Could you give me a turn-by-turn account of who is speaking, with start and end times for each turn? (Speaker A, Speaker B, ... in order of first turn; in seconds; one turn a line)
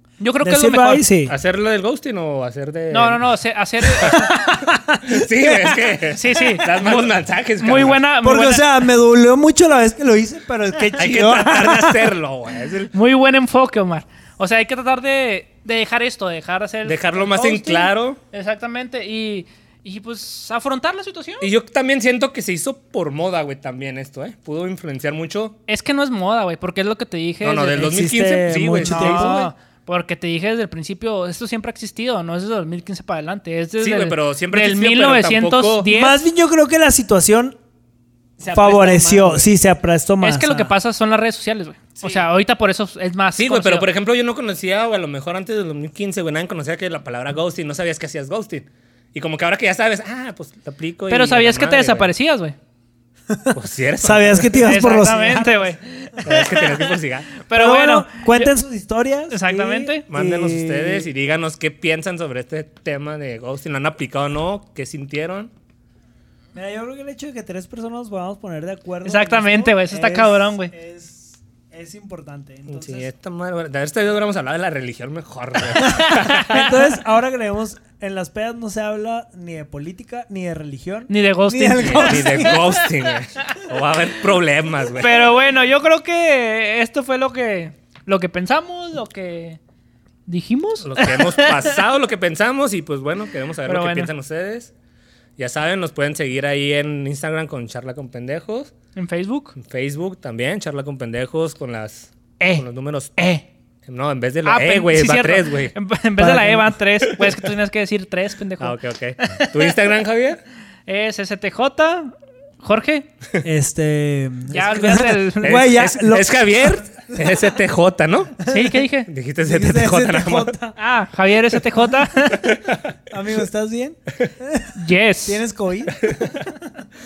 Speaker A: 0.2-1.1
Speaker B: 0.4-1.4
Speaker C: 1.3-3.3
Speaker A: 2.9-4.2
Speaker C: 4.0-8.0
Speaker B: 4.0-6.0
Speaker A: 6.1-7.1
Speaker A: 7.6-8.7
Speaker B: 8.2-12.1
Speaker C: 10.9-12.9
Speaker A: 12.9-21.5
Speaker C: 16.9-18.2
Speaker C: 21.4-25.6
Speaker A: 25.7-27.9
Speaker C: 27.4-29.5
Speaker B: 27.8-29.5
Speaker A: 28.8-36.2
Speaker C: 33.8-35.9
Speaker B: 35.9-37.6
Speaker C: 38.4-39.5
Speaker B: 38.5-40.7
Speaker A: 40.2-43.9
Speaker C: 43.4-52.1
Speaker A: 51.1-52.6
Speaker B: 53.3-55.8
Speaker C: 53.5-54.8
Speaker A: 54.6-58.5
Speaker C: 56.2-57.3
Speaker B: 57.5-61.1
Speaker A: 59.3-60.0
Speaker C: 60.1-65.5
Speaker B: 66.5-73.1
Speaker A: 69.0-70.7
Speaker C: 72.7-76.6
Speaker B: 75.8-82.7
Speaker A: 75.8-76.7
Speaker A: 81.1-82.8
Speaker C: 81.8-85.3
Speaker A: 85.0-89.6
Speaker A: 90.3-91.7
Speaker C: 90.8-94.7
Speaker A: 93.7-94.1
Speaker C: 95.4-98.7
Speaker A: 99.0-99.5
Speaker C: 99.6-103.2
Speaker A: 102.4-102.7
Speaker A: 103.2-103.4
Speaker C: 103.9-105.8
Speaker A: 104.5-109.7
Speaker B: 106.2-106.8
Speaker C: 107.1-107.4
Speaker C: 108.6-110.4
Speaker A: 110.9-113.1
Speaker B: 113.4-116.4
Speaker A: 114.5-115.7
Speaker C: 115.4-118.5
Speaker B: 118.5-118.8
Speaker A: 118.5-119.1
Speaker C: 119.1-120.5
Speaker B: 119.4-120.8
Speaker A: 120.8-122.5
Speaker C: 122.4-122.9
Speaker B: 123.1-124.7
Speaker A: 124.8-125.4
Speaker B: 125.3-126.2
Speaker C: 126.0-126.4